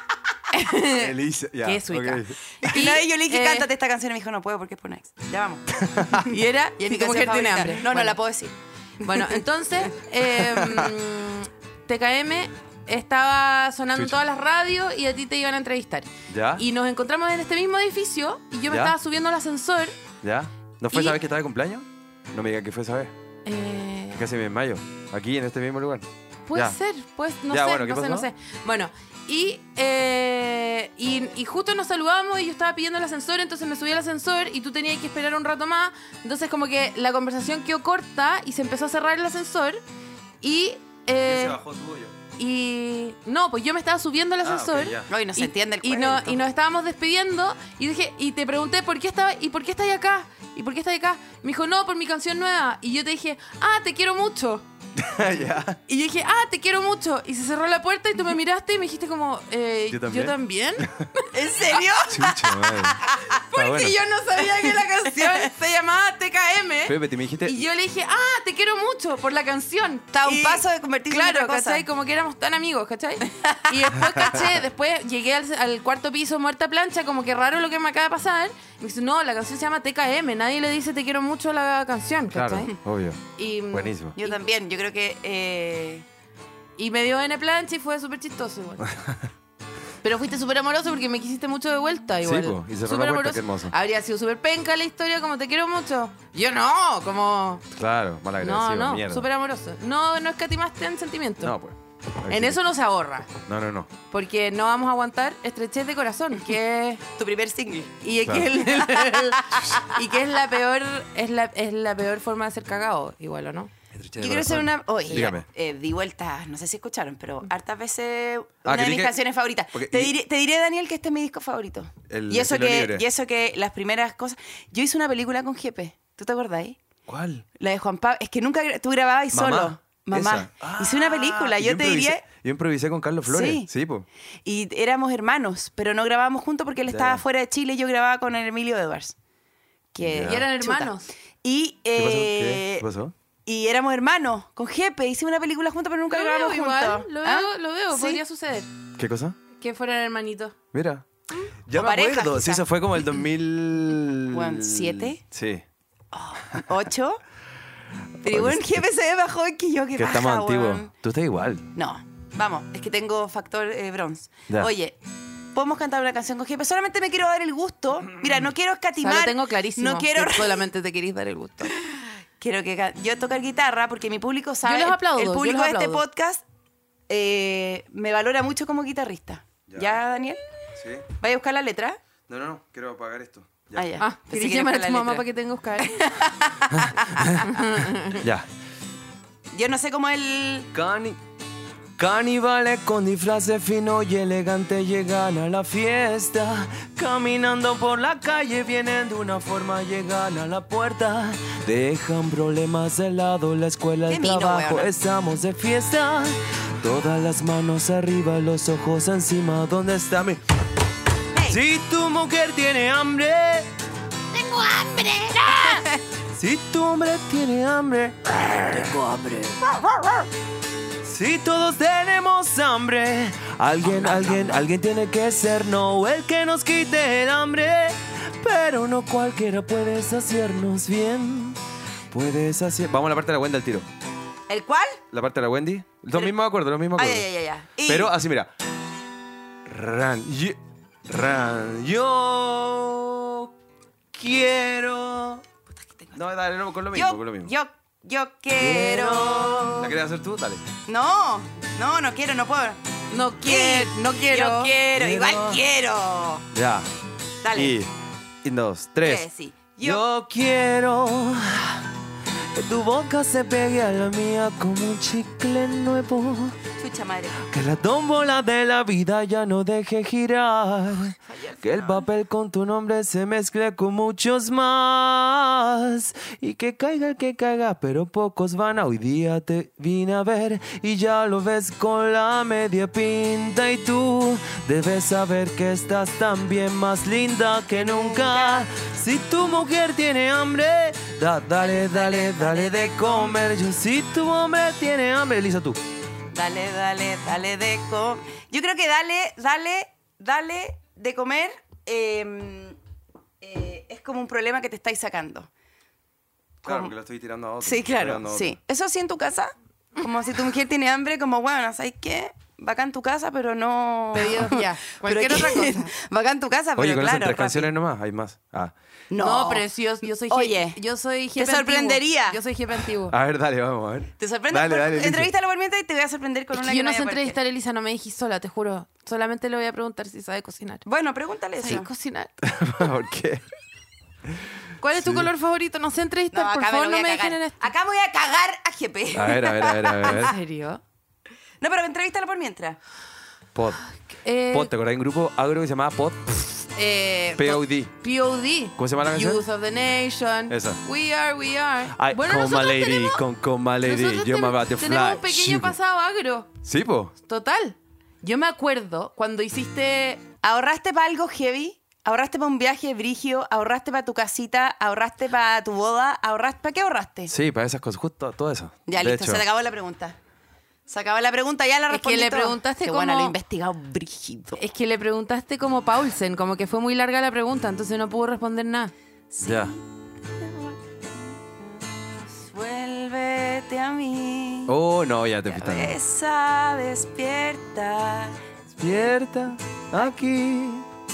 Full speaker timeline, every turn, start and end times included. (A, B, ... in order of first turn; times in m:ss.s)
0:00.5-0:01.1 A
0:00.8-0:02.4 B
0:01.6-0:03.7 A
0:02.6-0:06.2 C
0:05.8-0:06.3 B
0:06.2-0:08.2 A
0:06.8-0:09.4 C
0:09.0-0:20.0 A
0:10.3-0:10.9 B
0:16.3-0:16.6 B
0:18.7-0:19.0 B
0:20.2-0:23.1 B
0:20.9-0:21.2 A
0:23.5-0:24.3 A
0:24.1-0:26.8 B
0:26.5-0:39.8 A
0:27.5-0:28.3 B
0:40.4-0:41.6 A
0:41.2-0:42.2 B
0:42.4-0:54.7 A
0:44.4-0:45.1 B
0:45.1-0:46.5 C
0:55.0-0:55.8 B
0:55.9-1:01.3 A
0:59.9-1:01.0 B
1:01.3-1:03.0 C
1:02.1-1:03.0 B
1:03.3-1:22.7 A
1:03.5-1:04.0 B
1:05.1-1:05.5 C
1:06.9-1:07.7 B
1:10.1-1:11.9 C
1:13.4-1:13.8 C
1:14.1-1:14.4 B
1:22.3-1:24.2 B
1:23.4-1:24.4 A
1:24.2-1:26.1 C
1:26.8-1:28.9 A
1:28.8-1:29.2 B
1:30.0-1:37.6 A
1:32.2-1:33.7 B
1:37.7-1:39.3 B
1:38.4-1:41.5 A
1:41.4-1:42.6 B
1:42.3-1:43.3 A
1:43.4-1:43.9 B
1:44.1-1:47.0 A
1:47.1-1:48.0 C
1:48.0-1:53.7 A
1:48.2-1:48.6 B
1:49.0-1:49.8 C
1:53.9-1:55.5 B
1:54.2-2:06.8 C
1:58.6-1:59.2 B
1:59.7-2:00.1 B
2:02.1-2:03.0 B
2:07.1-2:07.5 B
2:07.6-2:12.2 C
2:09.3-2:14.1 B
2:13.2-2:13.7 C
2:14.4-2:19.2 C
2:16.9-2:17.2 B
2:19.9-2:22.9 C
2:20.0-2:20.5 B
2:20.2-2:21.1 A
2:22.0-2:23.1 B
2:23.5-2:28.2 C
2:26.1-2:28.7 A
2:29.0-2:29.4 B
2:29.6-2:30.6 A
2:30.7-2:31.1 B
2:31.6-2:35.6 B
2:31.8-2:32.7 C
2:34.3-2:35.2 C
2:36.1-2:37.2 C
2:38.2-2:38.8 B
2:38.2-2:40.9 C
2:40.0-2:41.7 B
2:41.8-2:45.0 C
2:45.5-2:50.7 C
2:49.0-2:51.7 A
2:51.8-2:56.4 C
2:54.6-2:56.0 A
2:57.1-3:00.4 C
2:59.7-3:00.0 B
3:00.8-3:01.1 B
3:01.2-3:02.0 C
3:02.3-3:03.9 B
3:03.7-3:05.3 C
3:04.0-3:06.0 A
3:05.8-3:07.3 C
3:06.7-3:08.5 B
3:07.2-3:08.2 A
3:09.5-3:10.7 C
3:10.7-3:11.2 B
3:12.0-3:30.4 B
3:24.1-3:24.9 C
3:31.4-3:33.7 B
3:34.3-3:35.8 A
3:35.4-3:36.0 C
3:36.3-3:40.1 B
3:41.0-3:51.6 B
3:44.0-3:44.5 C
3:52.1-3:53.9 B
3:54.5-3:55.0 C
3:55.1-3:57.2 B
3:57.0-3:58.1 C
3:57.8-3:58.5 B
3:59.7-4:03.5 B
4:04.1-4:05.4 B
4:05.7-4:06.2 C
4:06.1-4:07.5 B
4:06.9-4:10.0 C
4:08.6-4:10.6 B
4:10.9-4:12.8 C
4:13.1-4:14.8 A
4:13.4-4:16.4 C
4:14.9-4:15.6 B
4:16.5-4:16.9 B
4:17.4-4:17.8 C
4:17.5-4:17.9 B
4:18.4-4:19.3 B
4:19.0-4:20.0 C
4:19.8-4:21.9 B
4:22.6-4:26.6 B
4:26.7-4:27.4 C
4:27.4-4:55.8 B
4:31.3-4:32.1 C
4:47.8-4:48.7 C
4:51.6-4:53.4 C
4:56.3-5:02.8 C
5:03.4-5:05.5 C
5:06.6-5:08.5 B
5:06.6-5:06.9 C
5:07.6-5:17.7 C
5:14.1-5:15.9 A
5:16.8-5:18.7 B
5:19.1-5:19.7 C
5:19.2-5:23.2 A
5:20.3-5:20.8 C
5:21.4-5:22.4 C
5:23.1-5:25.3 B
5:24.2-5:27.4 C
5:26.5-5:30.8 A
5:30.9-5:31.9 C
5:31.6-5:32.3 A
5:32.4-5:33.4 B
5:34.3-5:35.3 B
5:34.8-5:37.7 A
5:36.3-5:40.3 C
5:39.1-5:40.4 B
5:40.0-5:40.8 A
5:41.6-5:42.8 C
5:43.5-5:44.0 B
5:44.0-5:44.7 A
5:44.5-5:46.7 B
5:46.7-5:53.2 A
5:47.4-5:47.9 B
5:48.8-5:49.4 B
5:50.5-5:50.8 B
5:51.9-5:55.8 B
5:53.8-5:56.5 A
5:56.6-5:57.1 B
5:57.2-6:00.2 A
6:00.4-6:07.3 C
6:07.3-6:09.4 B
6:08.9-6:10.2 C
6:10.9-6:14.6 C
6:11.9-6:13.3 A
6:14.6-6:18.9 A
6:19.3-6:24.8 C
6:19.4-6:19.7 B
6:24.7-6:26.0 B
6:25.5-6:28.4 C
6:28.8-6:30.9 B